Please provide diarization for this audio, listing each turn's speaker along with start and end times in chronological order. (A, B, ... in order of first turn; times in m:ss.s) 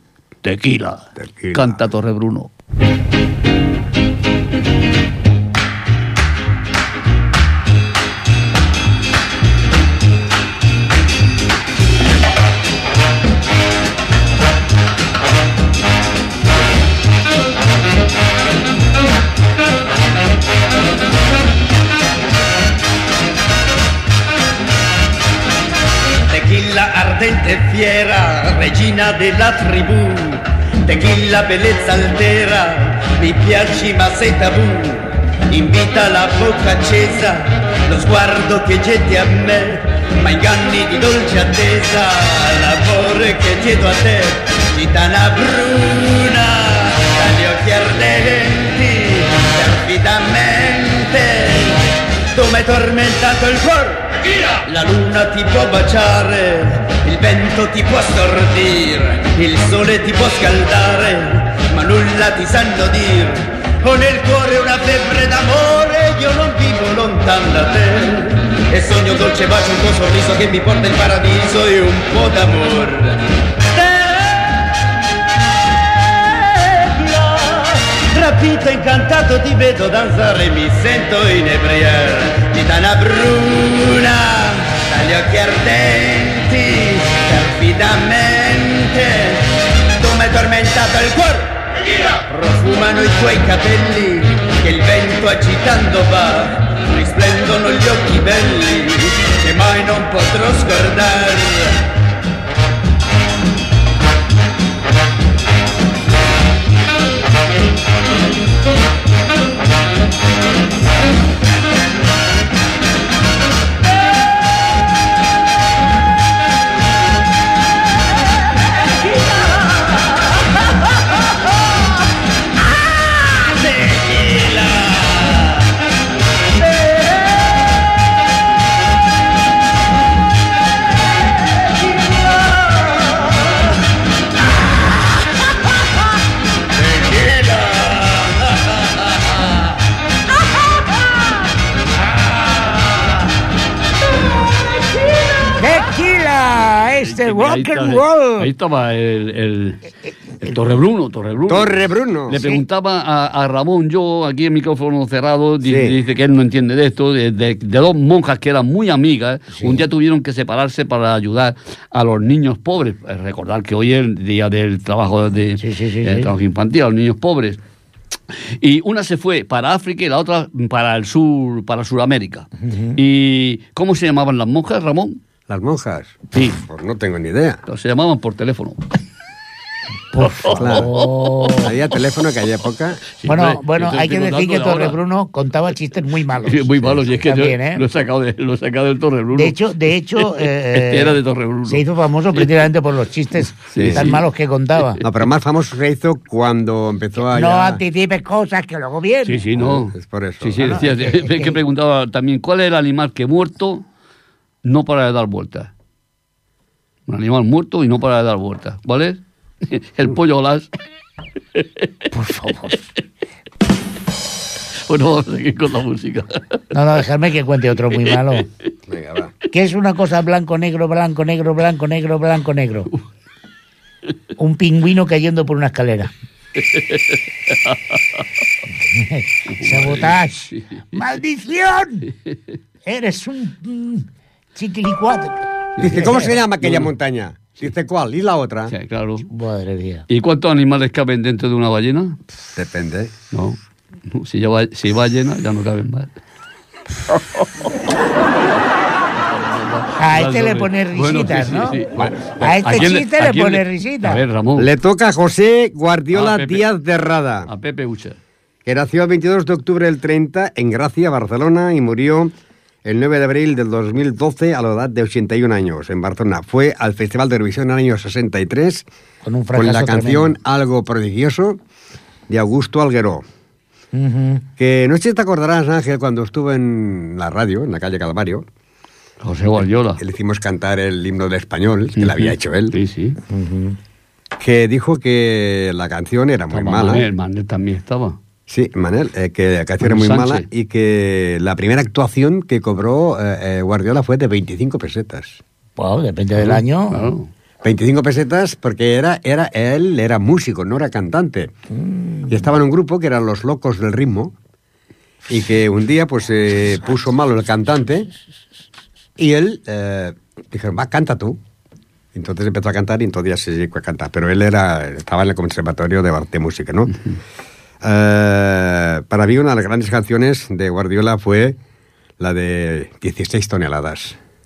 0:00.4-0:02.5 A
0:01.2-0:01.8 B
0:26.3-0:51.7 C
0:52.3-1:13.2 C
1:18.0-1:29.4 C
1:30.0-1:31.5 C
1:32.2-1:41.6 C
2:25.6-2:28.5 D
2:27.0-2:29.8 A
2:30.4-2:47.6 A
2:31.5-2:32.4 B
2:35.6-2:36.0 B
2:45.6-2:46.3 D
2:48.6-2:55.2 A
2:52.6-2:53.0 D
2:55.5-2:57.6 B
2:56.3-2:56.6 A
2:57.6-2:58.8 A
3:00.1-3:01.7 D
3:00.2-3:01.5 A
3:00.6-3:00.9 B
3:01.6-3:03.0 B
3:03.2-3:05.0 A
3:03.2-3:07.8 D
3:06.4-3:09.6 A
3:09.3-3:15.0 D
3:10.2-3:11.8 A
3:13.7-3:14.2 A
3:13.8-3:14.0 B
3:14.8-3:15.0 A
3:15.0-3:17.8 B
3:17.3-3:19.5 D
3:19.3-3:23.8 A
3:19.6-3:20.6 B
3:20.6-3:21.6 D
3:24.6-3:25.7 A
3:27.1-3:30.7 A
3:31.6-3:31.9 A
3:32.1-3:32.8 D
3:34.9-3:36.6 A
3:36.7-3:38.5 D
3:38.9-3:39.3 B
3:39.5-3:42.9 D
3:44.4-3:46.1 D
3:46.6-3:48.0 A
3:48.9-3:52.1 D
3:49.5-3:51.0 A
3:52.8-3:56.2 D
3:55.8-3:58.7 B
3:56.6-3:56.9 A
3:58.7-3:59.3 A
3:59.3-4:00.0 D
4:00.1-4:02.2 A
4:02.6-4:03.1 B
4:03.3-4:03.6 A
4:04.1-4:06.1 A
4:09.3-4:14.7 A
4:10.0-4:11.9 D
4:12.4-4:14.2 D
4:14.6-4:17.4 B
4:16.1-4:16.7 A
4:17.5-4:18.2 A
4:18.6-4:22.3 B
4:22.8-4:28.9 B
4:29.2-4:30.3 D
4:29.5-4:31.6 B
4:32.3-4:33.2 B
4:33.9-4:34.4 D
4:34.6-4:38.4 B
4:39.2-4:40.0 A
4:40.0-4:42.7 B
4:42.0-4:43.2 A
4:43.3-4:43.8 D
4:44.4-4:47.0 B
4:46.5-4:48.2 A
4:48.5-4:55.4 B
4:49.8-4:50.5 A
4:55.8-4:57.1 D
4:56.4-4:57.3 A
4:57.6-5:01.5 B
5:01.7-5:02.4 D
5:02.3-5:04.3 B
5:05.3-5:08.1 B
5:09.2-5:11.4 B
5:12.1-5:16.9 B
5:17.8-5:21.6 B
5:22.2-5:24.2 B